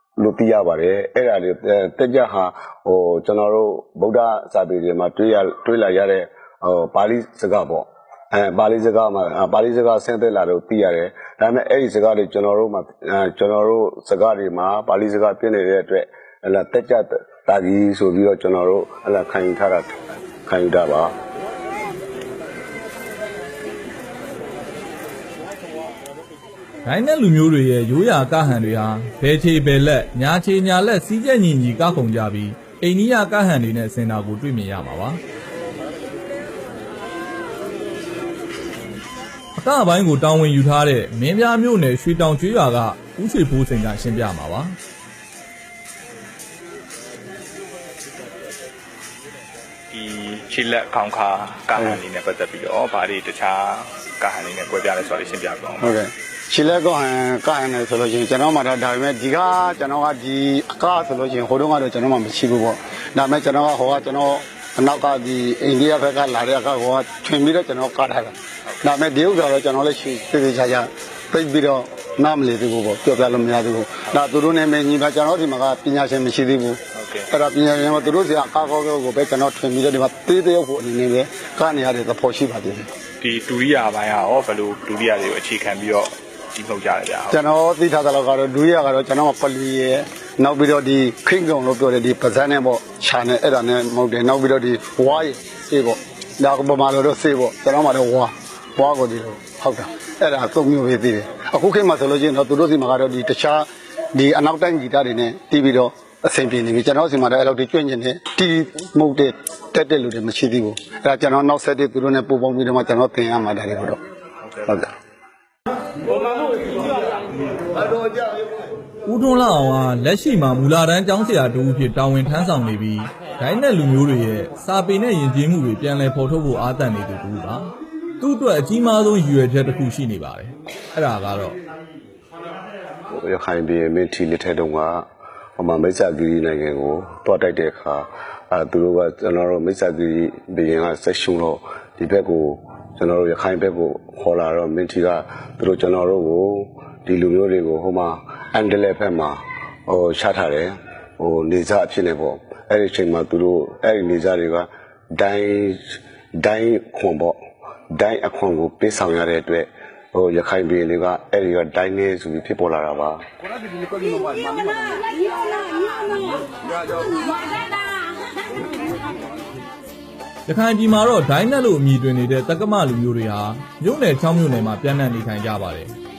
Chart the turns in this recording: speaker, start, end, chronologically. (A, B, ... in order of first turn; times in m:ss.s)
0:00.2-0:21.1 A
0:26.8-0:35.2 B
0:39.6-0:44.7 B
0:49.9-0:55.8 C
0:51.8-0:52.0 D
0:55.8-1:22.9 D
1:23.2-1:27.2 C
1:27.3-1:54.0 D
1:59.1-2:11.6 B
2:13.1-2:15.0 A
2:15.6-2:37.4 A
2:37.9-2:43.2 A
2:50.5-2:55.9 B